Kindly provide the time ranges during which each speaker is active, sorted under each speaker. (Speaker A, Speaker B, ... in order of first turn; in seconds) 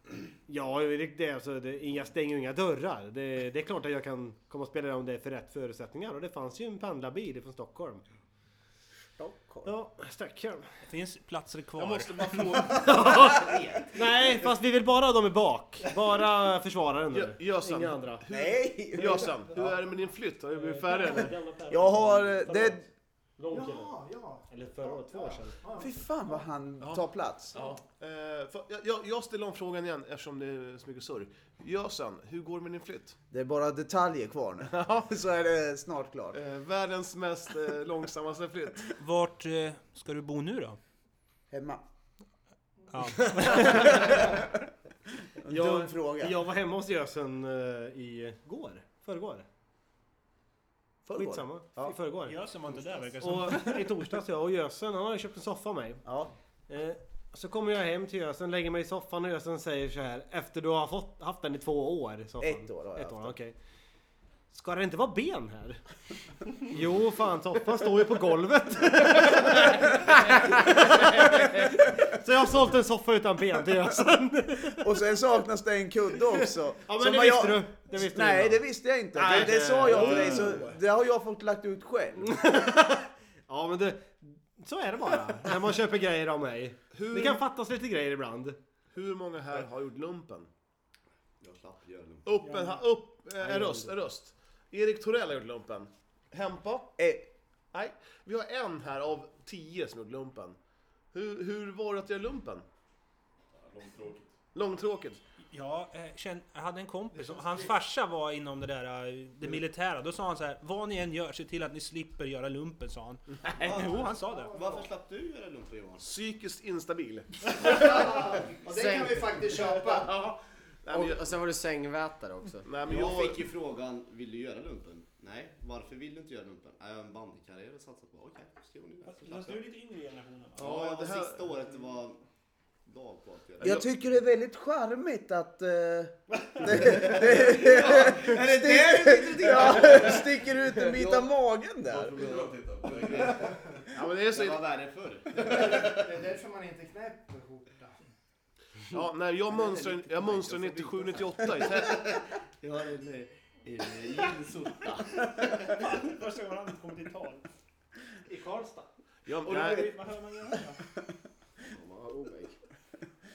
Speaker A: 0.5-8.0, 9.6-10.7, 12.5-18.2, 18.9-19.8, 20.5-23.9, 24.5-25.6, 43.2-44.4, 45.5-49.5, 51.1-52.4, 53.2-56.0, 56.7-63.5, 64.5-65.8, 66.5-74.9, 76.9-78.6, 79.2-80.7, 82.2-88.6, 93.4-94.0
Speaker B: 9.2-9.7, 18.3-19.5, 21.7-22.8, 25.8-27.6, 33.3-36.4, 41.5-41.8, 43.4-44.4, 45.4-46.4, 51.0-51.9, 56.0-56.3, 62.4-63.4, 74.8-82.5, 97.0-97.3, 133.6-142.3
Speaker C: 10.8-12.3, 39.0-40.8, 42.9-44.2, 52.2-54.0, 92.4-92.8, 105.5-114.7, 129.1-130.7, 155.2-157.4, 158.3-158.9, 159.5-160.8
Speaker D: 11.8-13.3, 17.1-21.3, 27.6-33.2, 34.7-35.1, 36.3-38.9, 79.2-80.8, 86.9-87.4, 88.9-90.5, 92.2-96.9, 97.7-100.6, 101.1-102.7, 104.5-105.2, 116.0-117.7, 120.8-121.4, 122.7-123.5, 130.6-131.6, 143.9-144.7, 148.9-152.1, 159.3-159.9
Speaker E: 13.2-14.1, 91.4-92.3, 103.6-104.3, 113.6-116.0, 118.8-120.3, 122.8-129.6, 130.6-132.2, 132.9-133.8, 136.7-141.3, 141.8-146.0, 149.5-155.6, 159.5-159.8
Speaker F: 23.5-26.4, 107.2-107.7, 113.7-114.9, 117.6-120.2, 145.4-148.0
Speaker G: 120.9-122.7, 161.8-162.5